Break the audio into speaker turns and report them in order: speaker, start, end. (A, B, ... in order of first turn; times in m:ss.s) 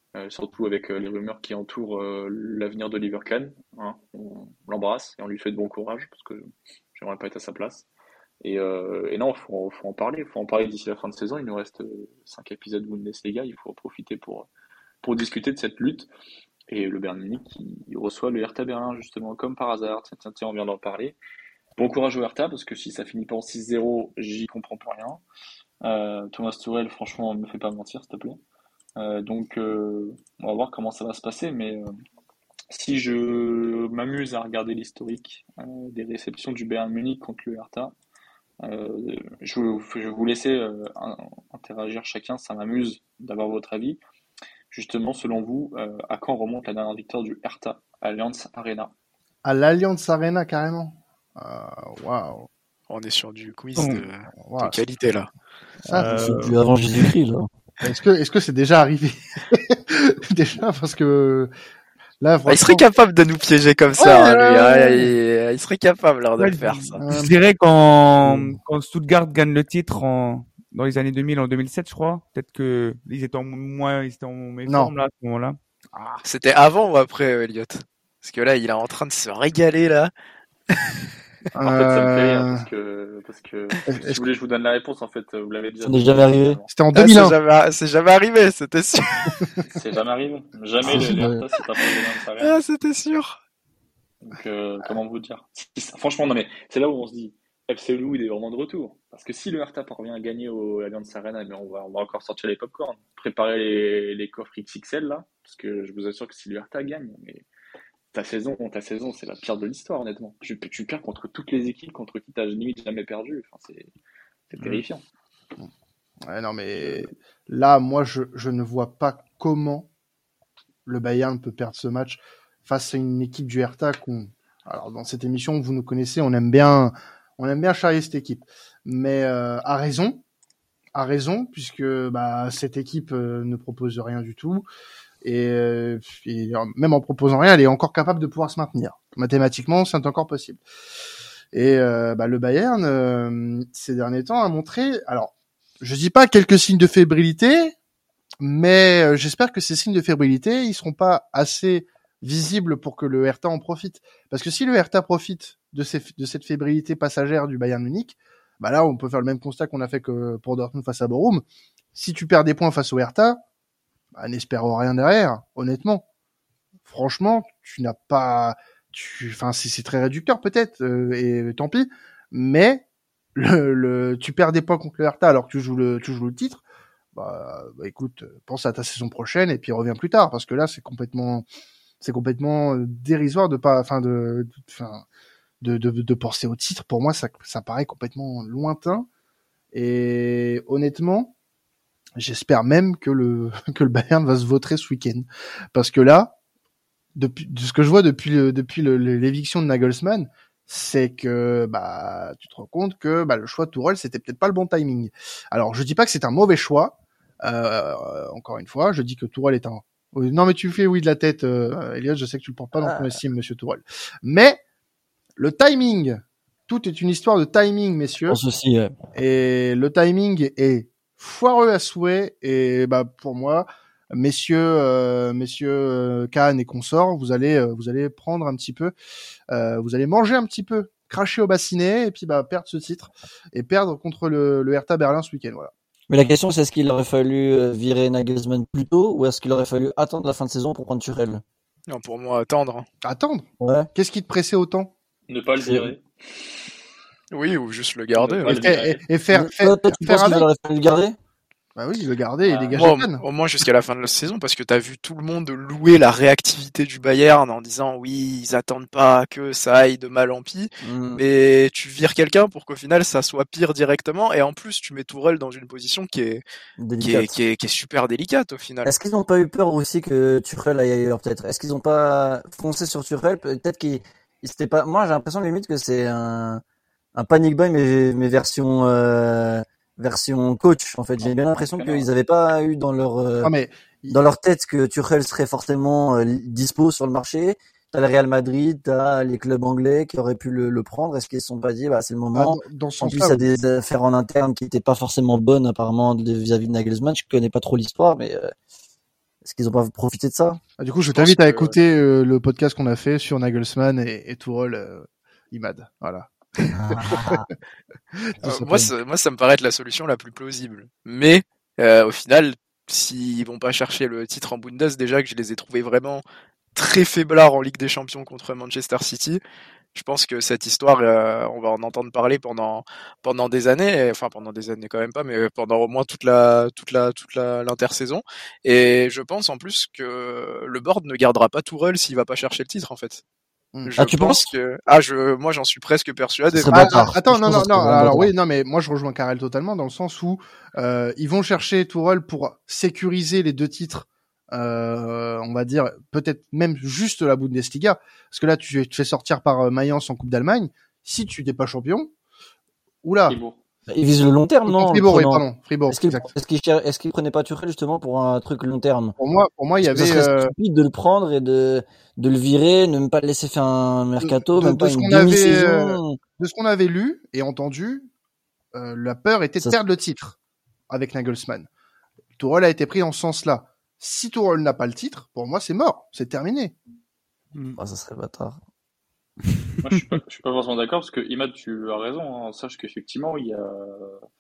0:00.1-0:07.9 A
0:08.4-0:14.5 A
0:15.0-0:16.1 A
0:16.7-0:21.2 A
0:21.8-0:25.2 A
0:25.8-0:28.4 A
0:29.0-0:31.9 A
0:32.7-0:37.9 A
0:38.6-0:44.0 A
0:44.7-0:48.9 A
0:49.4-0:52.5 B
0:52.9-0:55.3 C
0:53.8-0:54.0 D
0:54.4-0:54.8 B
0:55.8-0:56.2 B
0:55.9-0:56.6 D
0:56.0-0:57.5 E
0:57.8-1:01.5 B
1:02.2-1:02.8 B
1:02.5-1:07.0 C
1:04.0-1:05.1 B
1:06.4-1:15.6 D
1:07.0-1:07.3 B
1:08.2-1:08.6 B
1:14.7-1:14.9 B
1:15.9-1:16.2 B
1:16.2-1:20.1 C
1:20.7-1:21.0 C
1:21.5-1:22.6 B
1:21.6-1:26.7 A
1:23.8-1:24.2 B
1:25.8-1:26.6 E
1:26.7-1:27.3 B
1:26.9-1:29.4 C
1:29.7-1:32.6 A
1:30.9-1:31.3 B
1:32.4-1:33.4 C
1:34.2-1:47.4 A
1:48.1-1:53.9 A
1:54.5-1:55.0 A
1:56.2-1:59.9 B
1:56.8-1:57.0 A
2:00.8-2:10.2 B
2:10.9-2:14.6 B
2:15.2-2:20.6 B
2:21.5-2:27.7 B
2:28.4-2:41.4 B
2:41.9-2:43.4 B
2:44.1-2:46.0 B
2:46.8-2:52.8 B
2:53.3-2:56.6 B
2:57.1-3:01.4 B
3:02.0-3:05.0 B
3:05.6-3:09.1 B
3:09.7-3:11.3 B
3:12.2-3:16.3 B
3:17.1-3:34.6 B
3:32.8-3:33.1 E
3:35.4-3:38.4 B
3:38.3-3:38.9 E
3:39.1-3:48.9 B
3:49.5-3:55.7 B
3:56.1-4:01.4 E
4:01.9-4:02.8 C
4:03.0-4:04.9 B
4:03.6-4:03.9 E
4:05.3-4:06.6 A
4:05.6-4:05.9 E
4:07.3-4:08.7 C
4:08.2-4:09.0 A
4:08.6-4:10.5 B
4:09.3-4:11.1 E
4:11.8-4:13.2 B
4:12.4-4:12.8 A
4:12.7-4:26.4 C
4:20.8-4:21.2 E
4:26.8-4:27.4 E
4:27.0-4:28.9 C
4:28.8-4:36.6 E
4:37.1-4:43.5 E
4:41.2-4:42.1 A
4:43.4-4:44.2 B
4:44.1-4:58.5 E
4:52.3-4:53.5 B
4:59.4-5:00.6 E
5:00.8-5:07.4 B
5:01.1-5:01.7 C
5:06.7-5:07.5 E
5:08.2-5:08.8 B
5:08.4-5:16.2 C
5:08.6-5:08.8 E
5:16.7-5:19.4 C
5:19.9-5:33.2 C
5:33.8-5:37.1 C
5:34.0-5:34.5 E
5:36.5-5:38.3 E
5:36.7-5:52.1 B
5:53.0-5:53.4 B
5:53.3-5:53.6 A
5:53.9-5:59.1 E
5:54.6-5:56.3 B
5:59.2-6:00.5 B
5:59.8-6:06.2 E
6:04.2-6:08.1 B
6:08.7-6:10.4 B
6:10.9-6:11.7 B
6:12.4-6:16.7 B
6:17.7-6:18.6 E
6:19.8-6:24.2 A